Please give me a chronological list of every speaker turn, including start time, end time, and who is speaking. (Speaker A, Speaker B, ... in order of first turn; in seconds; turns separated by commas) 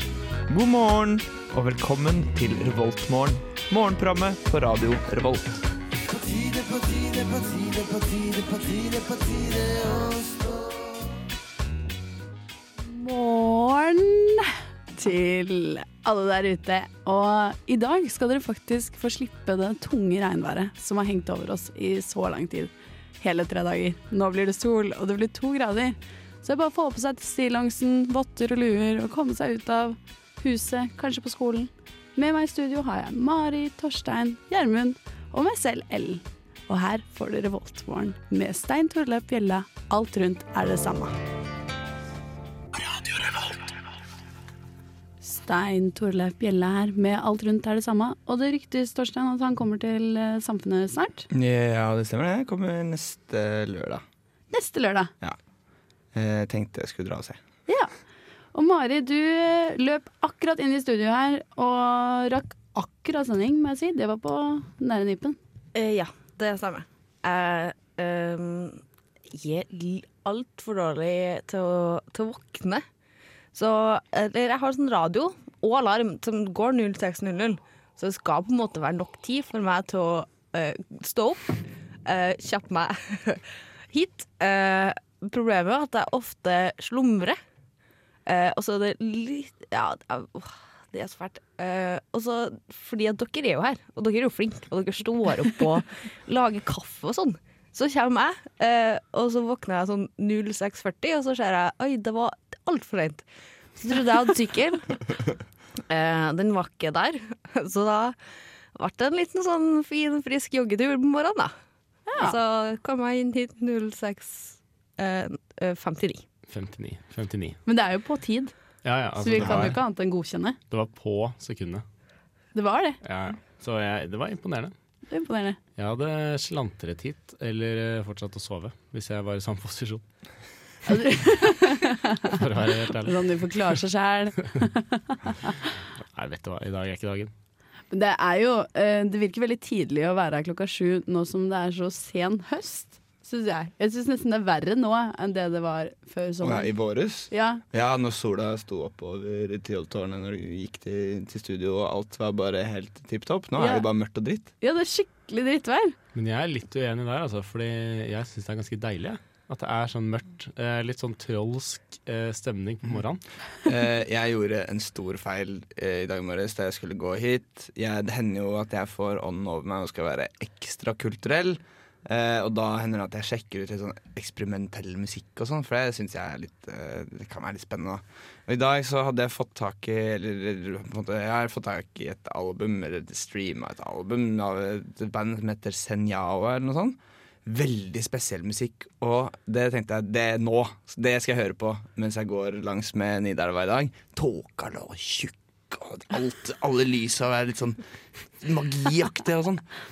Speaker A: 0.5-5.6, Speaker A: 8.0-10.2, Speaker B: 12.8-41.1, Speaker B: 45.2-51.3, Speaker A: 51.3-54.0, Speaker B: 54.5-55.1, Speaker A: 56.1-57.4, Speaker B: 57.7-57.9, Speaker B: 58.5-65.4, Speaker C: 65.8-72.8, Speaker C: 73.5-87.4, Speaker C: 88.3-103.2, Speaker C: 103.8-105.0, Speaker C: 105.9-108.2, Speaker C: 108.8-111.5, Speaker B: 112.1-112.4, Speaker C: 112.2-116.2, Speaker D: 116.5-117.6, Speaker B: 117.7-118.5, Speaker D: 118.8-119.8, Speaker B: 119.2-120.6, Speaker D: 120.7-121.8, Speaker B: 122.5-123.0, Speaker D: 123.0-124.7, Speaker B: 125.1-125.6, Speaker D: 125.8-130.0, Speaker B: 130.9-132.4, Speaker D: 132.3-133.2, Speaker B: 133.0-135.5, Speaker D: 136.1-137.3, Speaker B: 137.9-146.7, Speaker A: 146.4-154.5, Speaker B: 147.3-147.6, Speaker B: 153.6-153.9, Speaker B: 154.6-155.9, Speaker D: 156.1-163.2, Speaker A: 163.7-197.8, Speaker A: 198.4-199.7